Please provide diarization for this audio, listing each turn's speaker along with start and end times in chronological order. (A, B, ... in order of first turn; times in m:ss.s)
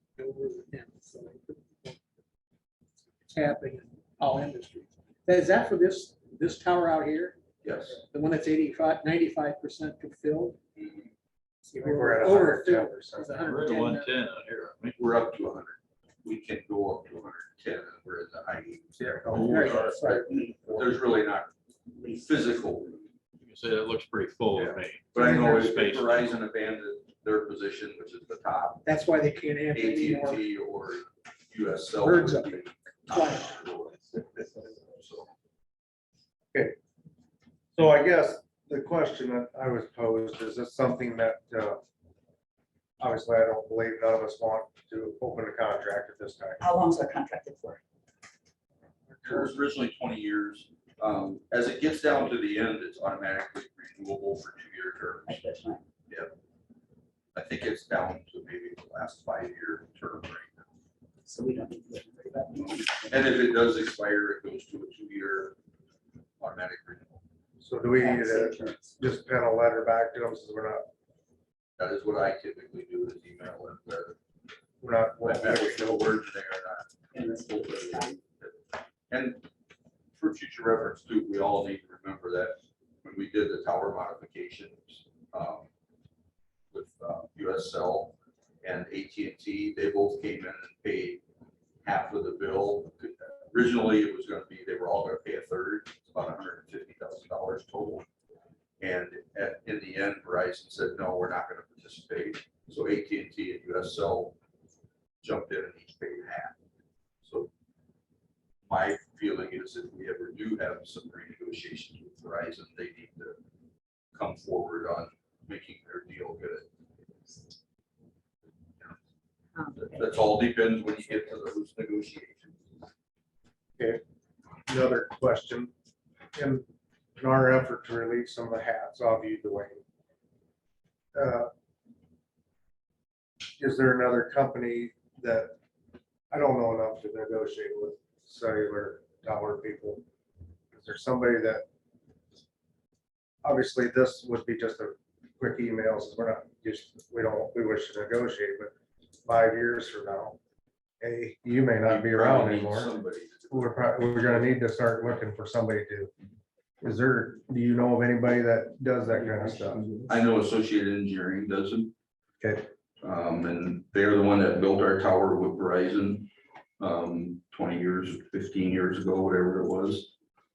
0:00.2-0:02.0 A
0:03.3-0:07.4 A
0:07.6-0:08.0 B
0:07.9-0:10.6 A
0:10.8-0:11.1 B
0:11.7-0:14.1 A
0:11.8-0:13.4 C
0:13.4-0:15.0 D
0:15.0-0:21.5 B
0:19.2-0:20.5 A
0:19.2-0:19.9 D
0:19.7-0:21.0 E
0:21.9-0:22.5 E
0:22.0-0:23.0 B
0:23.4-0:26.4 D
0:24.5-0:28.8 B
0:28.8-0:30.4 A
0:29.7-0:35.3 B
0:32.0-0:33.6 A
0:37.7-0:41.8 C
0:43.0-0:46.6 C
0:46.6-0:47.8 E
0:49.1-0:49.5 C
0:49.2-0:55.4 B
0:55.3-0:55.8 E
0:57.3-1:00.7 B
1:01.2-1:03.4 E
1:02.6-1:05.6 B
1:06.4-1:07.2 B
1:07.6-1:10.9 C
1:08.0-1:09.0 E
1:11.8-1:14.2 B
1:14.8-1:16.1 C
1:15.2-1:18.6 B
1:17.1-1:18.2 E
1:19.1-1:19.4 B
1:20.1-1:25.7 B
1:26.7-1:31.2 B
1:31.8-1:38.0 B
1:38.8-1:44.4 B
1:45.2-1:46.6 B
1:47.2-1:47.5 B
1:48.6-1:53.4 B
1:54.1-1:56.7 B
1:59.7-2:02.6 B
2:04.7-2:05.7 C
2:06.3-2:06.6 C
2:07.2-2:09.8 C
2:11.1-2:11.5 C
2:13.6-2:15.6 C
2:16.3-2:20.0 C
2:20.7-2:21.6 C
2:23.4-2:28.7 C
2:29.2-2:30.4 C
2:31.0-2:32.9 C
2:31.8-2:34.6 B
2:33.5-2:36.1 C
2:36.8-2:39.9 C
2:39.1-2:40.0 E
2:40.1-2:41.9 B
2:42.4-2:42.7 C
2:43.0-2:46.3 B
2:46.8-2:50.1 B